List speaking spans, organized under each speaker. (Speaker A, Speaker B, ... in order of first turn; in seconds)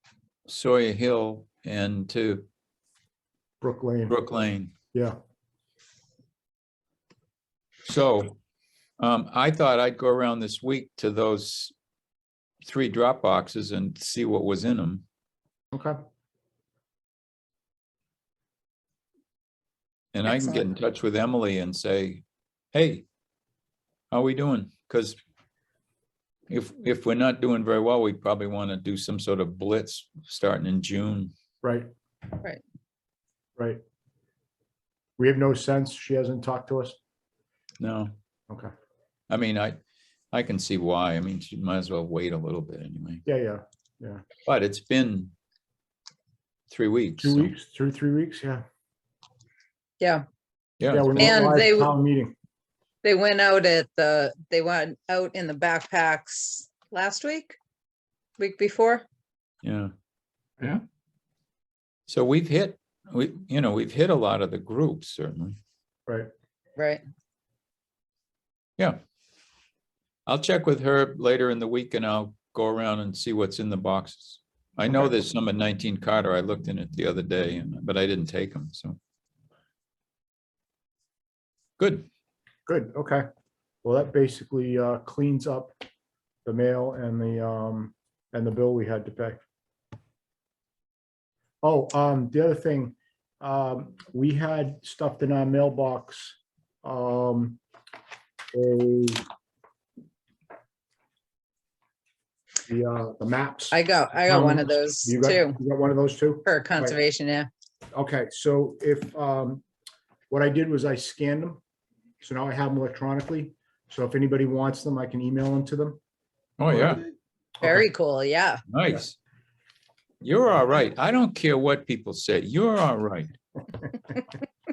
Speaker A: 0.5-2.4, 4.1-4.7, 7.9-8.4, 9.0-11.7, 12.6-15.0, 20.1-23.1, 24.1-25.2, 26.5-31.3, 37.8-38.1, 39.3-39.8, 40.3-43.2, 44.5-45.3, 46.7-47.5, 50.8-51.4, 59.6-59.9, 62.1-65.6, 70.3-79.0, 81.8-82.1, 116.6-117.0, 118.7-119.2, 120.2-123.4
Speaker B: 3.6-4.2, 15.7-16.0, 31.6-31.9, 35.2-37.0, 43.3-44.2, 47.2-48.6, 50.9-52.4, 82.7-83.2, 83.8-85.8, 86.5-89.4, 91.6-97.6, 98.5-99.2, 102.7-107.0, 107.9-109.6, 110.3-111.6, 112.2-116.0
Speaker C: 50.0-50.2, 51.2-51.9, 53.0-57.6, 58.4-59.0, 66.8-67.0, 103.7-105.6, 106.5-107.5, 117.6-118.6